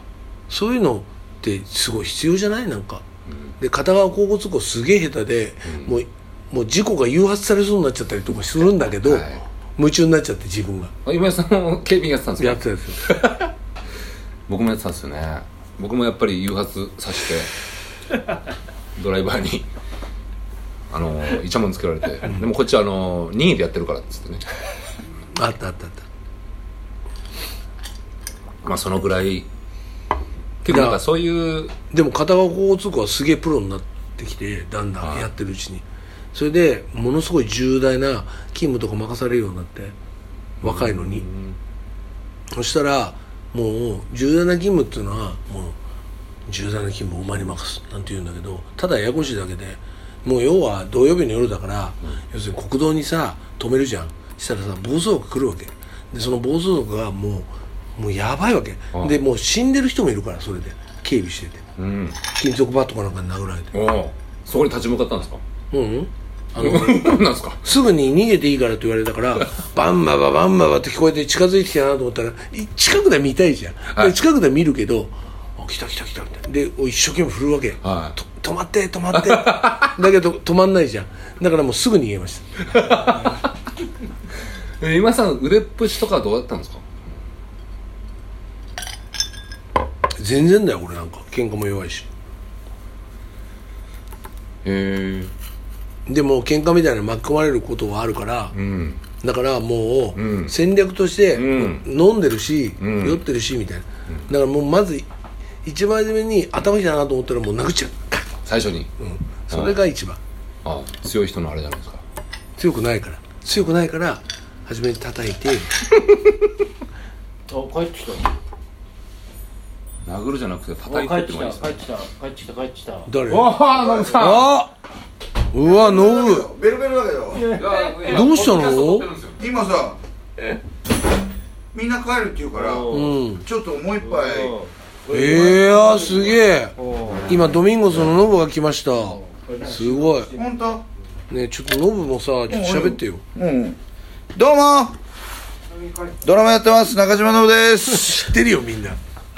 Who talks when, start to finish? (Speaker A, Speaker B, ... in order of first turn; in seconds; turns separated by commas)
Speaker A: 0.5-3.0, Speaker A: 3.6-10.9, Speaker B: 5.7-6.0, Speaker B: 9.0-9.4, Speaker B: 11.0-13.5, Speaker A: 12.4-13.0, Speaker B: 14.5-17.5, Speaker B: 19.0-19.7, Speaker B: 20.9-24.4, Speaker A: 25.4-26.0, Speaker B: 28.6-29.5, Speaker B: 30.6-31.7, Speaker A: 30.7-31.0, Speaker A: 31.9-39.9, Speaker B: 35.0-35.3, Speaker B: 40.6-41.6, Speaker A: 40.6-41.2, Speaker A: 42.5-45.8, Speaker A: 46.5-61.6, Speaker B: 58.9-59.2, Speaker B: 61.8-62.2, Speaker A: 62.3-63.7, Speaker B: 63.7-65.4, Speaker A: 65.7-83.4, Speaker B: 66.6-67.6, Speaker B: 77.8-78.2, Speaker B: 79.1-80.0, Speaker B: 82.7-83.5, Speaker B: 84.8-86.9, Speaker A: 90.2-92.1, Speaker B: 94.6-95.3, Speaker A: 96.1-98.5, Speaker B: 98.5-99.0, Speaker A: 99.2-105.1, Speaker B: 100.2-100.5, Speaker B: 101.3-101.9, Speaker B: 102.8-103.2, Speaker A: 105.6-108.3, Speaker B: 108.5-108.9, Speaker A: 109.0-110.2, Speaker B: 109.5-109.8, Speaker B: 110.6-112.0, Speaker A: 112.6-115.9, Speaker C: 117.5-118.3, Speaker B: 120.0-121.8, Speaker C: 120.8-123.1, Speaker A: 123.1-123.6, Speaker B: 123.3-124.5, Speaker A: 124.1-124.7, Speaker A: 125.5-126.5, Speaker D: 125.6-127.5, Speaker C: 127.3-128.4, Speaker B: 127.5-129.4, Speaker A: 128.1-129.1, Speaker D: 129.4-130.0, Speaker D: 131.7-134.5, Speaker C: 132.5-133.1, Speaker A: 132.9-133.4, Speaker C: 134.0-134.7, Speaker A: 135.1-136.8, Speaker D: 135.1-135.6, Speaker C: 135.2-137.5, Speaker A: 137.3-140.3, Speaker C: 139.0-140.4, Speaker D: 140.3-140.8, Speaker A: 141.3-143.2, Speaker D: 142.5-143.8, Speaker D: 144.3-145.0, Speaker D: 146.2-148.3, Speaker A: 147.9-149.0